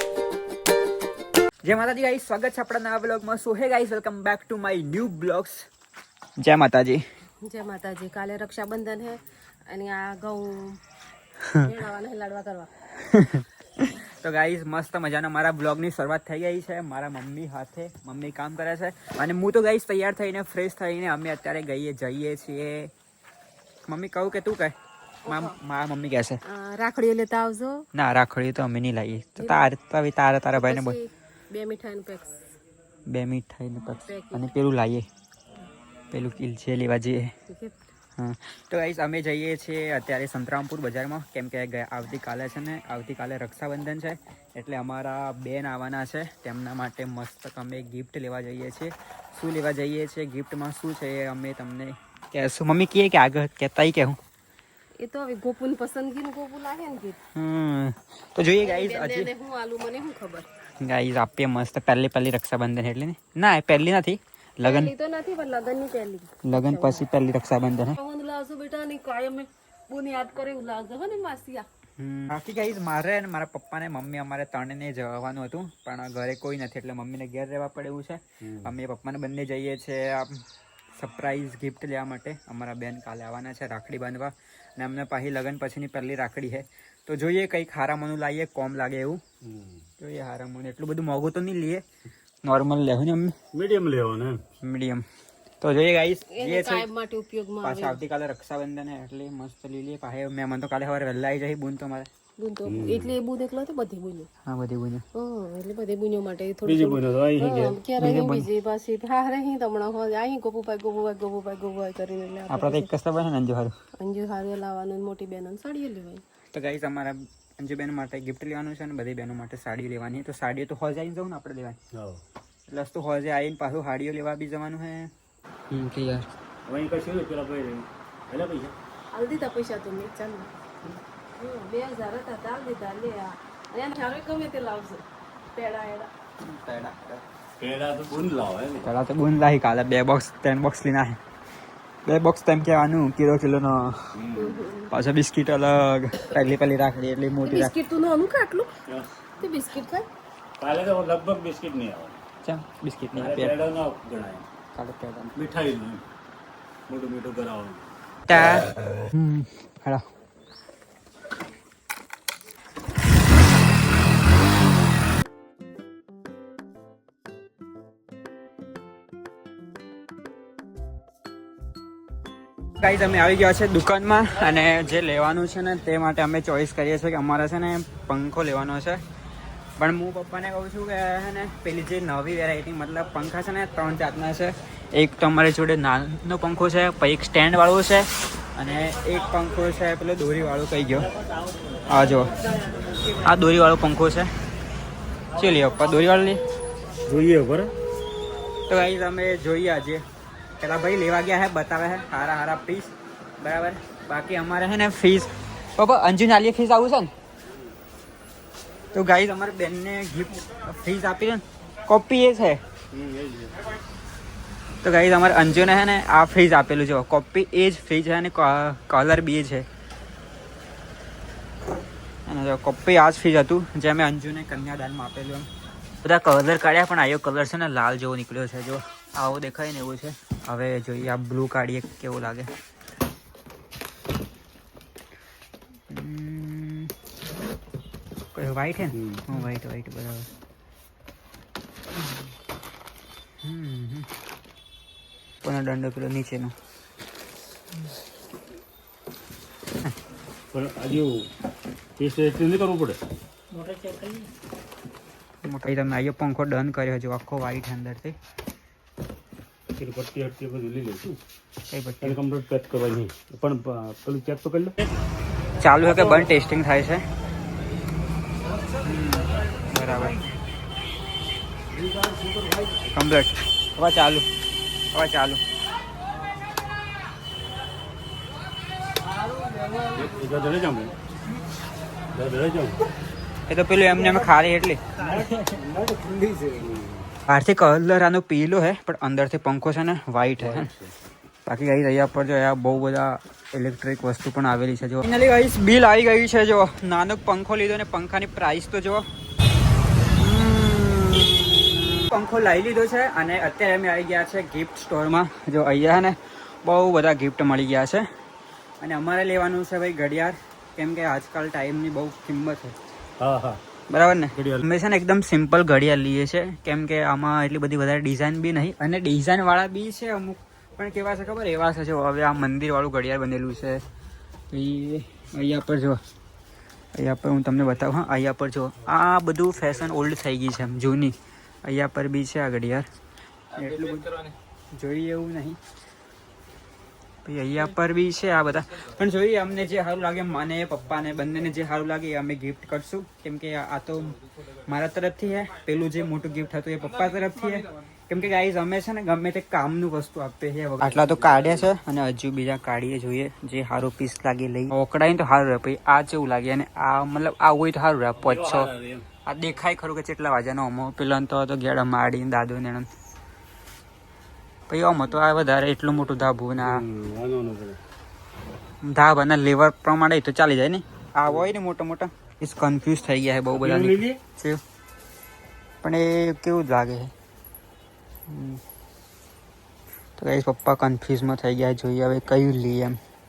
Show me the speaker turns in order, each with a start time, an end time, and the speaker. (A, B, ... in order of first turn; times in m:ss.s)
0:01.6-0:05.7 A
0:06.4-0:07.0 A
0:07.4-0:10.8 B
0:11.4-0:11.7 A
0:11.6-0:12.7 B
0:13.0-0:22.9 A
0:23.8-0:24.7 A
0:25.2-0:25.6 B
0:25.3-0:26.4 A
0:26.4-0:27.8 B
0:27.9-0:31.0 A
0:30.5-0:32.3 B
0:33.1-0:35.0 A
0:33.8-0:34.5 B
0:36.1-0:37.3 A
0:37.5-0:37.8 B
0:38.2-0:54.2 A
0:55.0-0:57.2 B
0:57.3-0:59.3 A
0:58.6-1:00.5 B
1:00.8-1:04.9 A
1:04.6-1:07.0 B
1:06.4-1:08.0 A
1:08.0-1:11.6 B
1:12.0-1:20.4 A
1:18.4-1:18.7 C
1:21.0-1:29.2 A
1:29.4-1:29.8 C
1:30.0-1:31.8 A
1:32.4-1:33.3 A
1:33.5-1:34.4 C
1:34.6-1:35.0 A
1:35.6-1:36.8 A
1:36.3-1:38.0 B
1:37.6-1:42.1 A
1:42.4-1:44.3 B
1:42.6-1:43.1 C
1:44.4-1:45.0 A
1:45.1-1:52.9 B
1:46.6-1:47.8 C
1:48.0-1:48.5 A
1:52.5-1:53.7 A
1:54.0-1:56.2 B
1:56.5-2:01.8 A
2:01.9-2:02.2 C
2:02.7-2:05.1 A
2:05.7-2:06.3 A
2:06.6-2:08.7 C
2:09.1-2:10.5 B
2:11.4-2:16.1 B
2:16.4-2:17.2 A
2:17.6-2:18.9 C
2:18.8-2:21.2 A
2:22.0-2:24.2 A
2:24.1-2:24.6 C
2:24.4-2:24.9 B
2:24.9-2:27.7 A
2:27.4-2:28.7 B
2:28.9-2:29.2 C
2:29.4-2:30.1 B
2:30.6-2:32.2 C
2:32.4-2:33.6 A
2:33.1-2:34.5 C
2:34.7-2:35.3 A
2:35.3-2:36.0 C
2:36.9-2:37.8 C
2:38.3-2:40.0 A
2:52.8-2:59.0 A
2:59.8-3:11.1 A
3:11.1-3:13.0 C
3:11.8-3:12.4 A
3:13.2-3:14.3 A
3:15.3-3:16.4 A
3:17.0-3:17.7 C
3:18.7-3:20.0 A
3:20.6-3:27.1 A
3:28.9-3:32.6 A
3:32.9-3:33.6 C
3:34.8-3:39.6 A
3:42.2-3:45.5 A
3:46.0-3:52.5 A
3:55.9-3:56.9 A
3:58.3-4:00.3 A
3:58.9-3:59.3 C
4:03.4-4:04.1 A
4:05.4-4:06.5 A
4:10.5-4:11.3 C
4:12.0-4:13.0 C
4:15.4-4:18.2 A
4:19.8-4:21.2 C
4:21.7-4:22.2 A
4:22.0-4:24.9 C
4:25.6-4:27.0 A
4:25.9-4:26.3 C
4:28.8-4:30.2 A
4:31.7-4:32.8 C
4:32.9-4:34.2 A
4:34.9-4:35.4 A
4:39.9-4:40.9 C
4:42.1-4:42.8 C
4:43.5-4:44.8 A
4:45.0-4:47.1 C
4:47.3-4:50.7 A
4:50.4-4:50.9 C
4:51.4-4:59.0 A
5:00.1-5:08.0 A
5:08.8-5:12.7 A
5:13.2-5:13.6 C
5:13.9-5:23.8 A
5:14.3-5:14.6 C
5:24.5-5:26.0 A
5:26.9-5:32.8 A
5:33.5-5:34.2 A
5:34.7-5:35.6 A
5:37.2-5:58.7 A
5:50.8-5:51.7 C
5:58.2-5:59.1 C
5:59.2-6:02.9 A
6:04.7-6:06.8 A
6:06.6-6:07.8 C
6:08.8-6:14.6 A
6:13.6-6:14.2 C
6:15.8-6:17.1 A
6:18.3-6:18.6 A
6:20.2-6:23.0 A